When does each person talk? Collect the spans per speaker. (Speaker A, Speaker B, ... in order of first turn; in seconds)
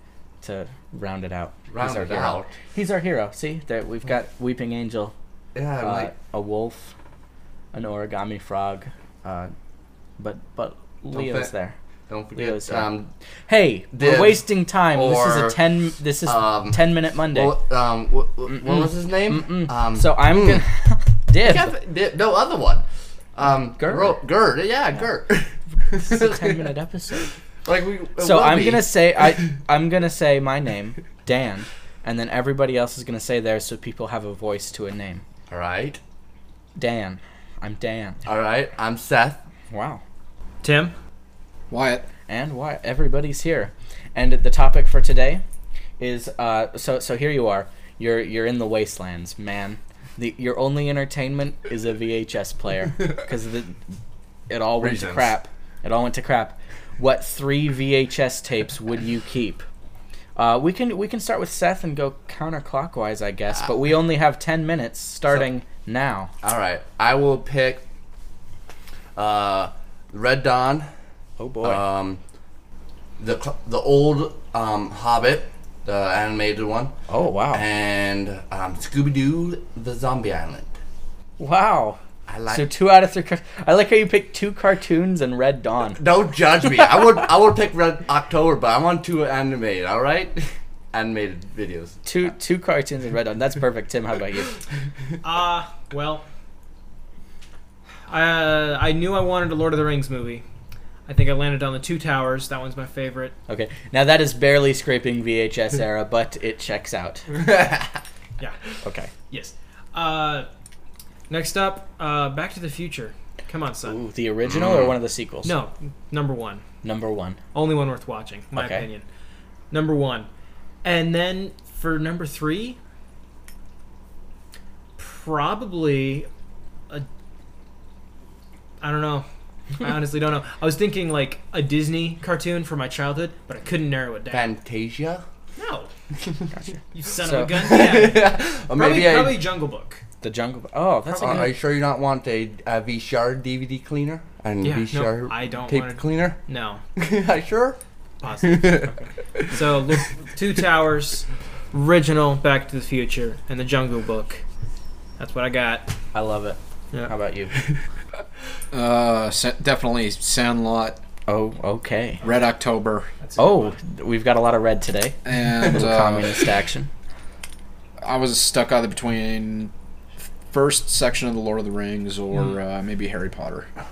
Speaker A: 0.4-5.1, 5.8-6.9, 7.7-8.9, 10.2-11.8, 12.3-12.9, 13.5-17.6, 18.5-21.8, 23.7-24.2, 25.9-27.3, 28.2-35.2, 36.8-38.2, 39.7-40.0, 42.3-45.4, 46.0-53.8, 54.5-59.7, 60.4-66.3, 71.4-71.8, 77.1-77.6, 81.4-86.0, 92.0-94.5, 103.5-107.3, 108.8-109.1, 113.8-115.6, 116.8-117.4, 118.6-118.9, 136.5-137.7, 140.2-141.5, 156.1-157.5, 161.3-162.2, 163.4-166.9
Speaker B: 1.7-2.5, 5.5-6.1, 9.2-9.5, 11.1-11.5, 12.1-13.1, 13.9-15.6, 16.2-20.6, 21.4-29.3, 35.5-36.0, 38.2-39.4, 54.8-55.4, 66.4-67.8, 69.2-70.9, 71.6-72.2, 73.2-76.9, 77.5-80.7, 82.3-82.7, 86.0-90.4, 90.9-92.0, 107.5-107.9, 114.4-115.0, 134.3-135.2, 137.5-139.5, 141.2-146.4, 147.0-147.8, 148.4-149.4
Speaker C: 40.6-41.0, 95.2-96.3, 98.1-100.5, 101.1-103.3, 109.3-110.5, 111.3-114.0, 115.4-116.6, 117.5-119.0, 119.7-120.3, 120.8-122.8, 125.0-126.3, 128.8-129.3, 129.8-134.5, 135.6-135.9, 136.9-140.0, 144.6-146.8, 148.2-148.9, 149.5-154.4, 155.2-156.0, 163.2-163.8
Speaker D: 41.7-42.1, 158.7-161.0, 162.2-163.1, 165.2-166.3, 168.0-169.7, 170.5-173.7